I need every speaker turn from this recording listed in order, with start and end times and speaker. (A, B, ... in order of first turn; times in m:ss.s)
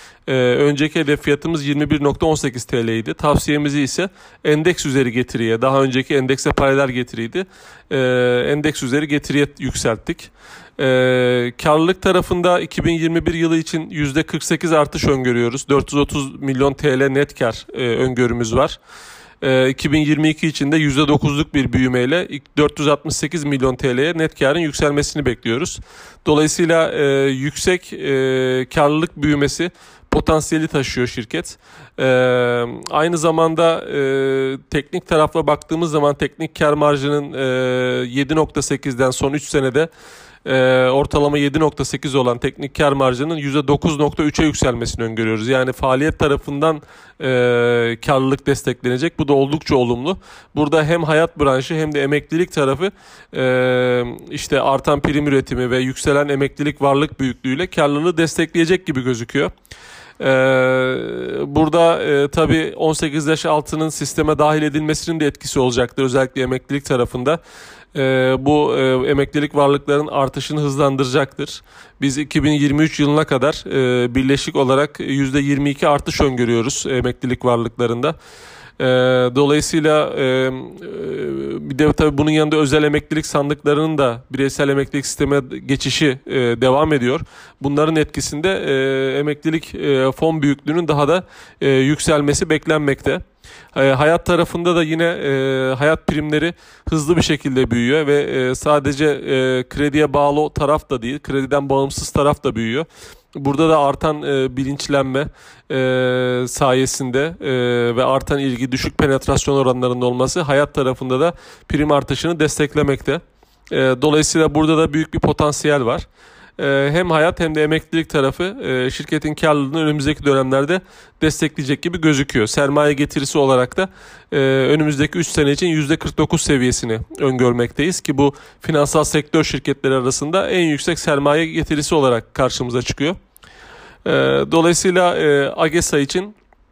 0:00.3-0:18.8 A
0:19.4-0:39.9 A
0:40.4-0:59.5 A
1:00.2-1:07.4 A
1:07.9-1:18.2 A
1:18.8-1:33.2 A
1:33.7-1:56.0 A
1:56.6-2:13.2 A
2:14.0-2:16.4 A